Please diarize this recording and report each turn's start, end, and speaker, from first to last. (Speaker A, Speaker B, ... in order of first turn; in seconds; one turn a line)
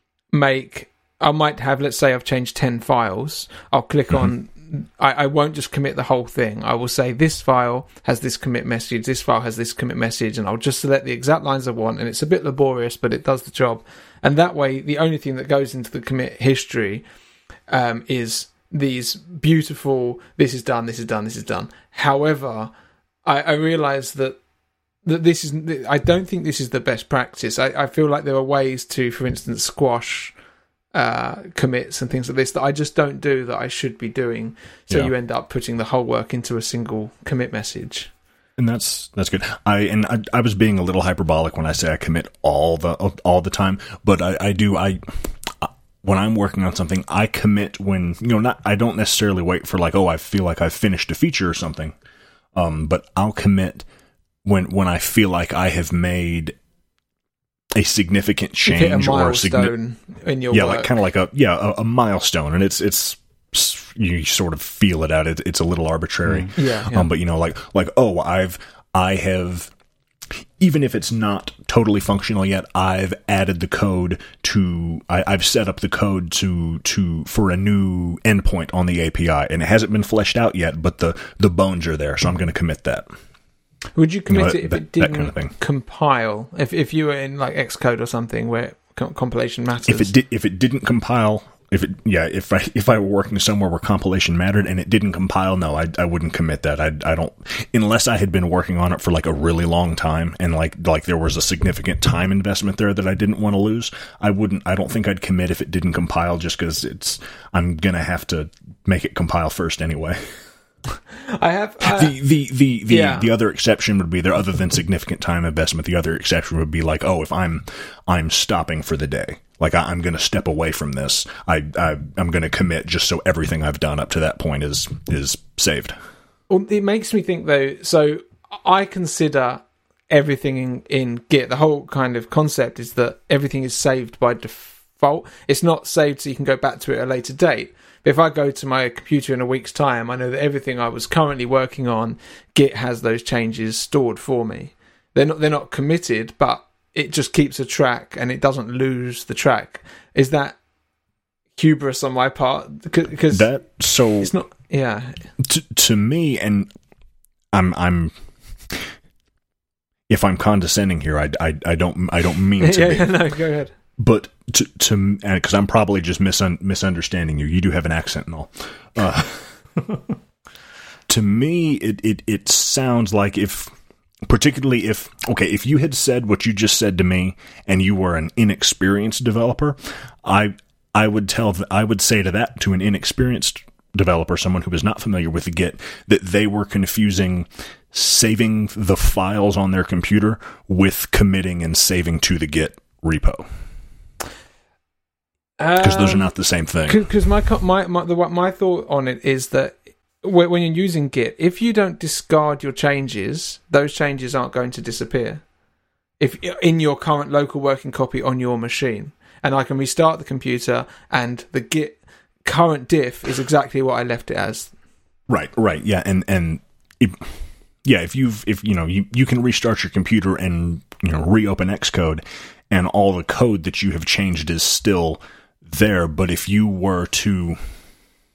Speaker A: 0.3-17.1
Speaker A: 17.7-22.7
Speaker A: 23.2-24.4
Speaker A: 25.1-30.4
Speaker A: 30.9-38.1
Speaker B: 38.6-52.0
Speaker B: 52.5-53.9
Speaker B: 54.5-56.6
Speaker B: 57.8-59.7
Speaker A: 58.7-60.9
Speaker B: 60.5-69.7
Speaker A: 66.6-67.1
Speaker B: 70.3-83.1
Speaker A: 84.0-90.1
Speaker B: 84.3-85.5
Speaker B: 89.9-110.4
Speaker A: 111.1-112.2
Speaker B: 111.8-125.9
Speaker A: 112.9-113.3
Speaker A: 126.5-150.6
Speaker A: 151.6-153.5
Speaker B: 153.3-154.3
Speaker A: 154.2-155.2
Speaker B: 155.4-156.7
Speaker B: 157.5-158.1
Speaker B: 160.1-163.1
Speaker A: 162.6-163.7
Speaker B: 164.0-169.4
Speaker B: 171.1-173.7
Speaker B: 174.2-193.5
Speaker A: 195.6-196.3
Speaker B: 195.8-197.1
Speaker A: 196.9-205.4
Speaker A: 206.2-214.7
Speaker B: 215.3-217.3
Speaker B: 217.8-227.6